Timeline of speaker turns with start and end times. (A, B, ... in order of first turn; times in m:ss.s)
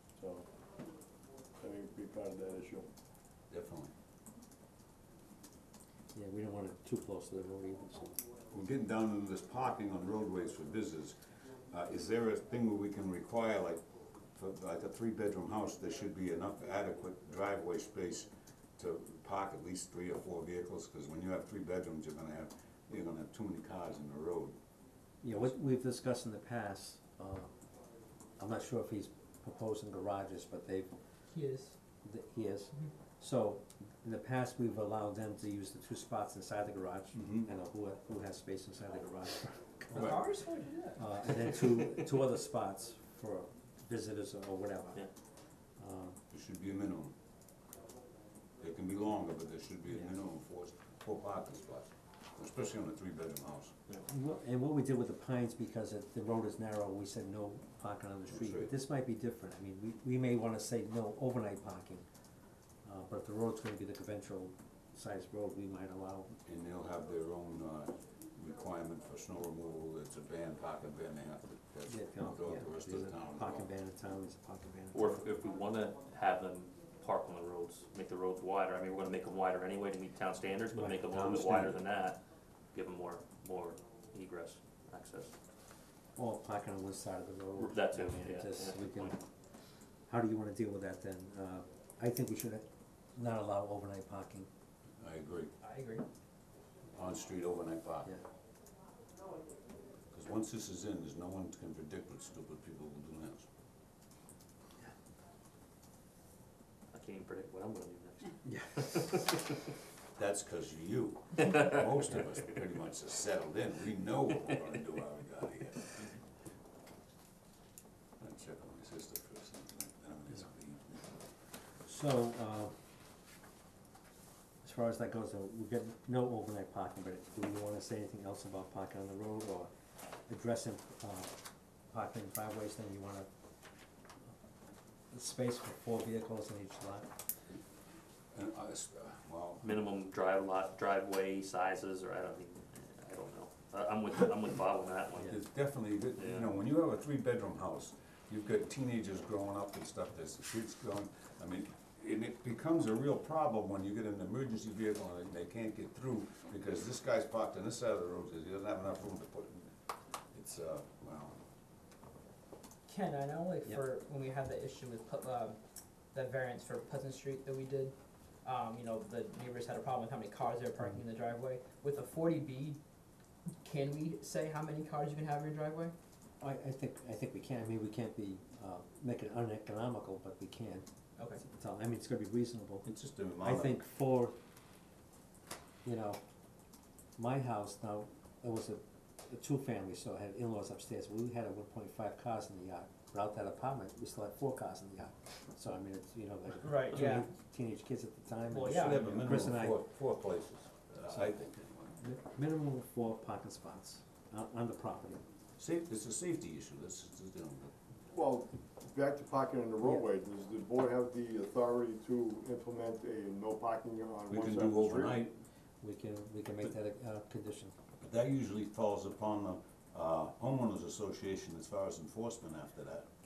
0:00.1-0:00.4 A
0:01.6-0:02.8 A
0:03.5-0:03.9 B
0:06.1-0:08.2 C
0:08.5-0:11.2 B
0:11.7-0:13.8 B
0:14.3-0:24.6 B
0:25.2-0:27.5 C
0:28.4-0:30.9 C
0:31.3-0:31.8 D
0:32.0-0:40.2 C
0:37.1-0:37.5 B
0:39.9-0:41.0 D
0:39.9-0:40.2 B
0:41.0-0:45.0 C
0:45.8-0:46.2 C
0:46.3-0:47.1 B
0:48.6-0:53.7 B
0:54.0-1:02.0 C
0:58.3-0:58.7 B
1:02.8-1:06.4 C
1:06.4-1:13.7 B
1:11.9-1:15.2 C
1:14.9-1:22.2 E
1:20.7-1:21.8 C
1:22.7-1:25.4 E
1:26.2-1:29.2 C
1:27.6-1:29.2 E
1:30.1-1:34.5 C
1:35.0-1:35.5 B
1:35.6-1:36.0 D
1:36.9-1:38.1 B
1:40.1-1:43.5 B
1:46.9-1:49.4 E
1:48.4-1:49.2 C
1:50.2-1:56.1 B
1:58.2-2:01.1 B
2:01.8-2:02.7 C
2:04.6-2:09.7 C
2:10.3-2:11.3 C
2:11.9-2:13.3 C
2:15.1-2:17.1 C
2:18.3-2:19.8 B
2:19.6-2:25.4 E
2:25.2-2:39.7 B
2:26.2-2:26.5 E
2:40.3-2:41.4 B
2:42.9-2:45.6 D
2:46.1-2:52.8 D
2:53.6-2:55.9 D
2:56.4-3:00.8 C
3:01.4-3:02.9 C
3:02.8-3:03.8 B
3:03.4-3:04.3 C
3:05.8-3:06.2 C
3:07.2-3:19.8 C
3:16.6-3:17.3 D
3:18.5-3:19.1 D
3:18.6-3:22.0 B
3:22.0-3:25.2 C
3:25.6-3:27.7 B
3:28.1-3:35.2 A
3:34.3-3:35.4 B
3:35.8-3:37.7 C
3:38.0-3:43.1 B